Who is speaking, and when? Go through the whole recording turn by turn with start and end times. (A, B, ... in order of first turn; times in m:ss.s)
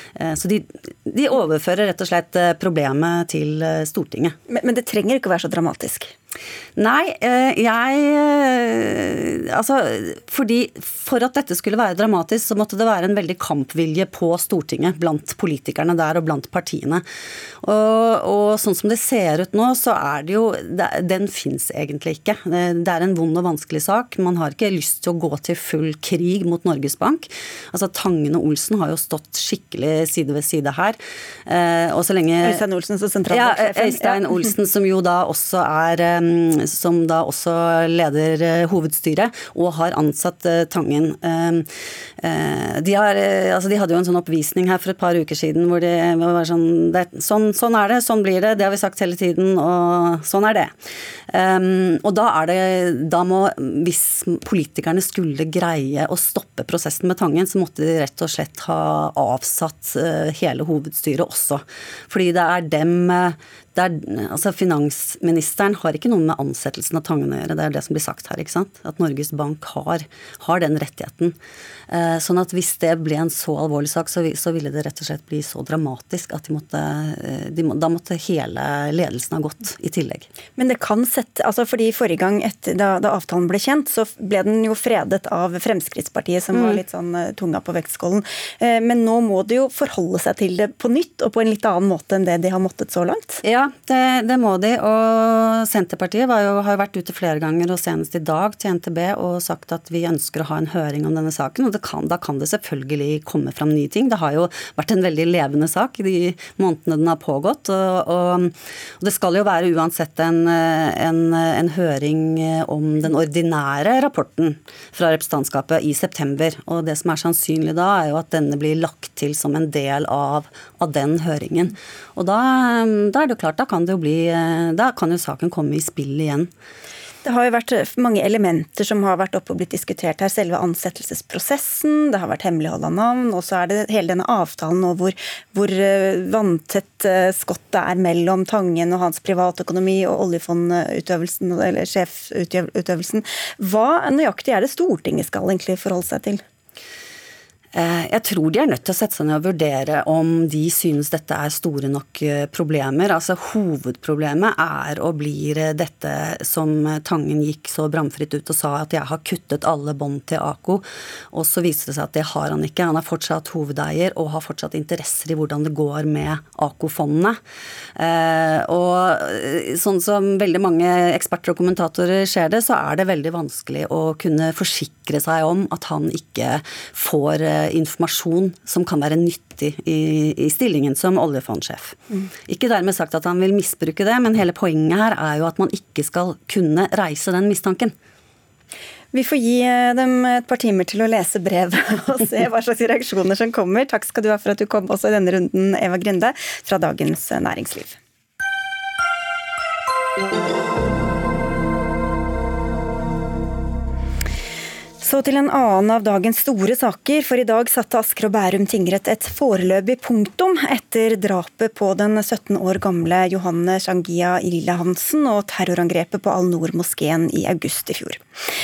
0:00.2-0:04.4 A
0:04.5-0:06.1 B
0:06.8-0:17.0 A
0:17.6-0:32.6 A
0:32.4-0:34.4 B
0:33.3-0:41.7 A
0:42.2-0:50.7 A
0:51.3-1:11.4 A
1:11.9-1:20.3 A
1:20.6-1:33.4 B
1:26.5-1:26.8 A
1:33.4-2:06.5 A
2:07.2-2:26.4 B
2:27.8-2:47.4 A
2:48.0-3:07.9 A
3:09.1-3:18.0 B
3:25.0-3:38.2 B